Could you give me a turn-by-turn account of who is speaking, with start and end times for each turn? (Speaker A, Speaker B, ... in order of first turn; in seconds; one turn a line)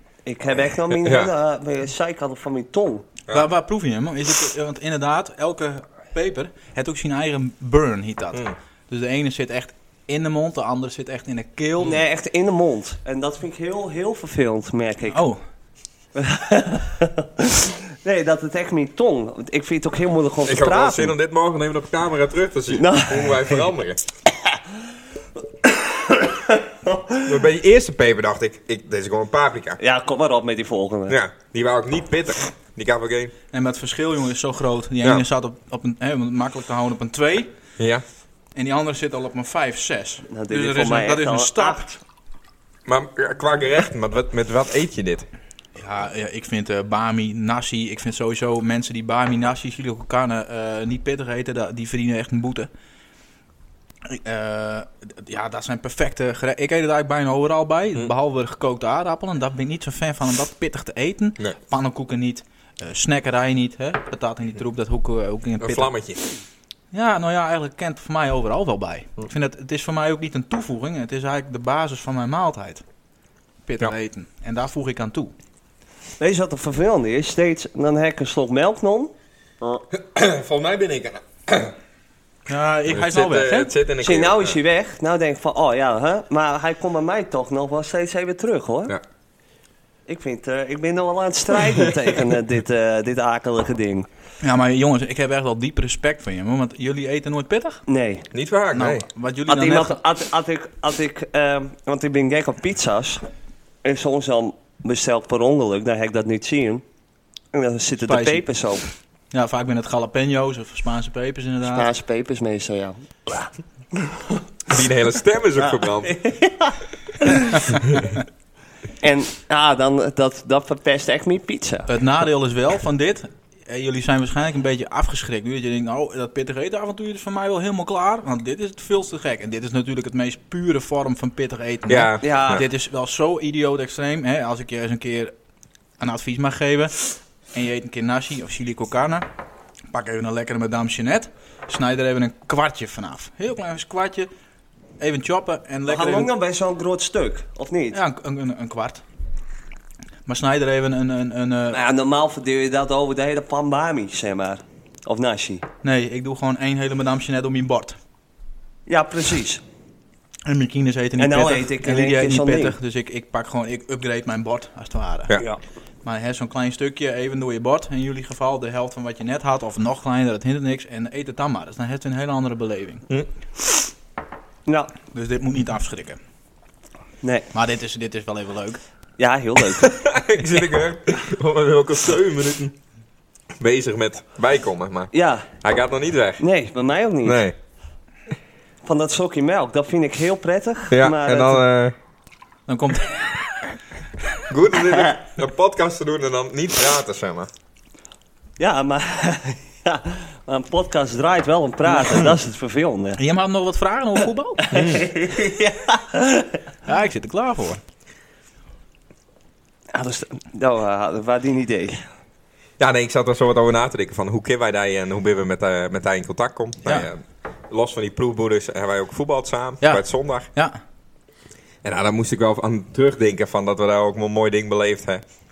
Speaker A: 0.2-3.1
Speaker B: 1.0-1.3
Speaker C: 3.3-12.0
Speaker A: 11.8-15.2
Speaker C: 15.1-15.4
Speaker A: 16.1-21.1
Speaker B: 20.4-24.0
Speaker A: 22.7-23.6
Speaker A: 25.9-27.1
Speaker B: 27.2-29.8
Speaker A: 29.8-31.2
Speaker B: 31.1-33.3
Speaker C: 33.5-37.5
Speaker C: 38.5-41.9
Speaker A: 40.3-42.0
Speaker B: 42.9-45.3
Speaker C: 45.8-52.7
Speaker C: 54.0-65.9
Speaker B: 65.6-66.2
Speaker C: 66.9-72.8
Speaker C: 73.6-75.3
Speaker A: 76.2-79.8
Speaker B: 79.9-81.7
Speaker C: 82.5-83.7
Speaker B: 82.9-84.6
Speaker A: 84.0-88.9
Speaker A: 90.1-94.1
Speaker C: 94.4-97.8
Speaker A: 97.9-98.2
Speaker B: 98.3-99.0
Speaker C: 98.7-100.0
Speaker A: 99.5-103.2
Speaker A: 103.8-106.8
Speaker A: 107.5-108.8
Speaker C: 108.0-108.5
Speaker C: 109.3-111.9
Speaker A: 111.6-114.2
Speaker B: 114.7-116.3
Speaker A: 115.6-116.7
Speaker A: 119.0-121.9
Speaker C: 121.9-135.3
Speaker B: 131.9-132.6
Speaker A: 132.2-132.6
Speaker C: 136.0-139.3
Speaker C: 139.9-144.3
Speaker C: 145.0-146.3
Speaker A: 145.8-148.0
Speaker C: 147.9-149.0
Speaker C: 150.2-151.8
Speaker A: 151.7-155.6
Speaker C: 155.8-158.0
Speaker A: 158.9-159.6
Speaker C: 160.4-165.4
Speaker A: 161.2-162.8
Speaker C: 166.0-173.0
Speaker A: 174.7-174.9
Speaker C: 175.1-176.2
Speaker A: 177.2-177.5
Speaker C: 177.5-178.8
Speaker A: 179.2-179.9
Speaker B: 179.8-182.7
Speaker B: 183.6-185.1
Speaker A: 185.1-185.5
Speaker B: 185.6-186.4
Speaker A: 186.4-187.4
Speaker B: 187.2-187.5
Speaker A: 188.8-191.6
Speaker B: 190.9-191.9
Speaker C: 192.7-193.5
Speaker B: 194.5-197.5
Speaker A: 198.6-203.2
Speaker C: 203.2-204.7
Speaker A: 204.6-206.6
Speaker B: 204.7-205.0
Speaker C: 206.8-207.8
Speaker A: 209.9-212.0
Speaker B: 212.8-220.5
Speaker C: 219.8-220.8
Speaker B: 221.8-225.2